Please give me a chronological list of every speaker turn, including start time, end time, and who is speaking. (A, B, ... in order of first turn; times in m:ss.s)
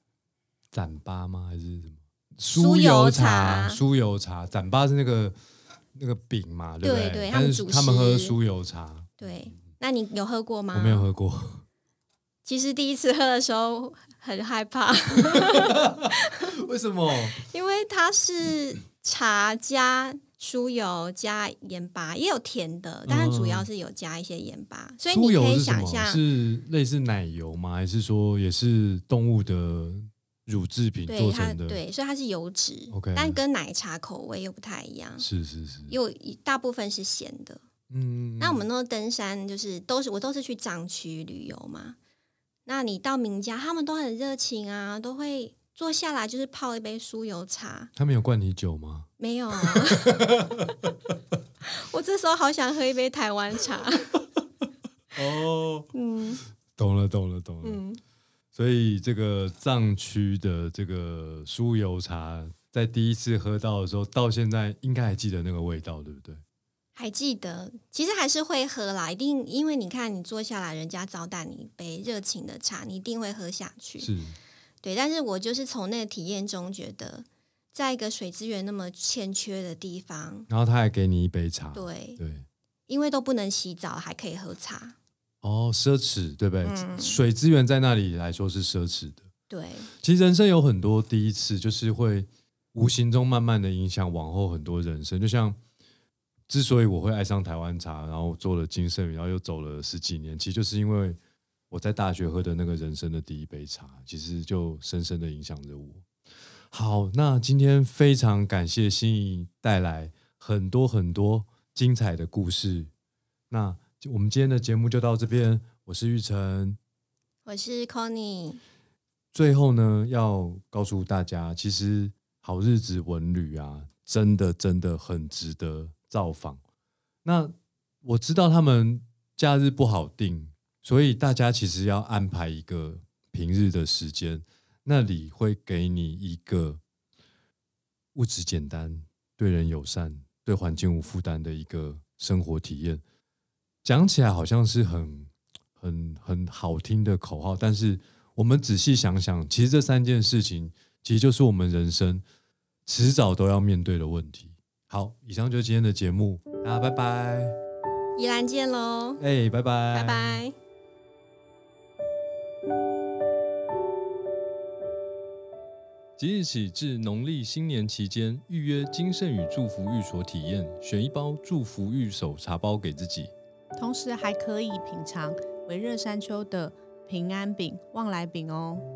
0:00.7-0:05.4 A
0:02.5-0:03.8 B
0:05.9-0:09.2 A
0:06.8-0:08.4 B
0:09.2-0:11.1 B
0:10.7-0:11.6 A
0:12.4-0:16.5 B
0:15.8-0:17.4 A
0:17.4-0:26.2 B
0:23.0-0:23.7 A
0:25.1-0:31.8 A
0:31.1-0:35.2 B
0:32.9-0:33.4 A
0:35.2-0:35.9 A
0:35.9-0:37.6 B
0:37.9-0:38.6 A
0:38.4-0:42.0 B
0:42.6-0:47.9 B
0:47.9-0:49.1 A
0:49.2-0:50.2 B
0:49.6-0:50.9 A
0:51.6-0:54.1 B
0:55.1-0:55.9 A
0:55.9-0:56.4 B
0:56.8-0:57.8 A
0:57.6-0:58.0 B
0:58.5-1:06.4 A
1:07.0-1:14.1 B
1:14.0-1:14.4 A
1:14.8-1:20.5 B
1:20.5-1:22.4 A
1:21.7-1:22.2 B
1:22.9-1:25.0 B
1:25.4-1:29.3 A
1:26.6-1:27.2 B
1:29.5-1:29.9 B
1:30.0-1:35.6 A
1:36.5-1:41.2 A
1:41.7-1:46.0 A
1:46.7-1:52.9 A
1:53.5-1:56.8 A
1:57.4-1:58.6 B
1:59.3-2:06.6 A
2:07.2-2:16.8 A
2:18.1-2:23.0 A
2:23.8-2:32.2 A
2:32.8-2:37.6 A
2:38.2-2:39.2 B
2:39.2-2:40.4 A
2:39.9-2:40.5 B
2:46.2-2:53.3 A
2:53.7-2:58.8 C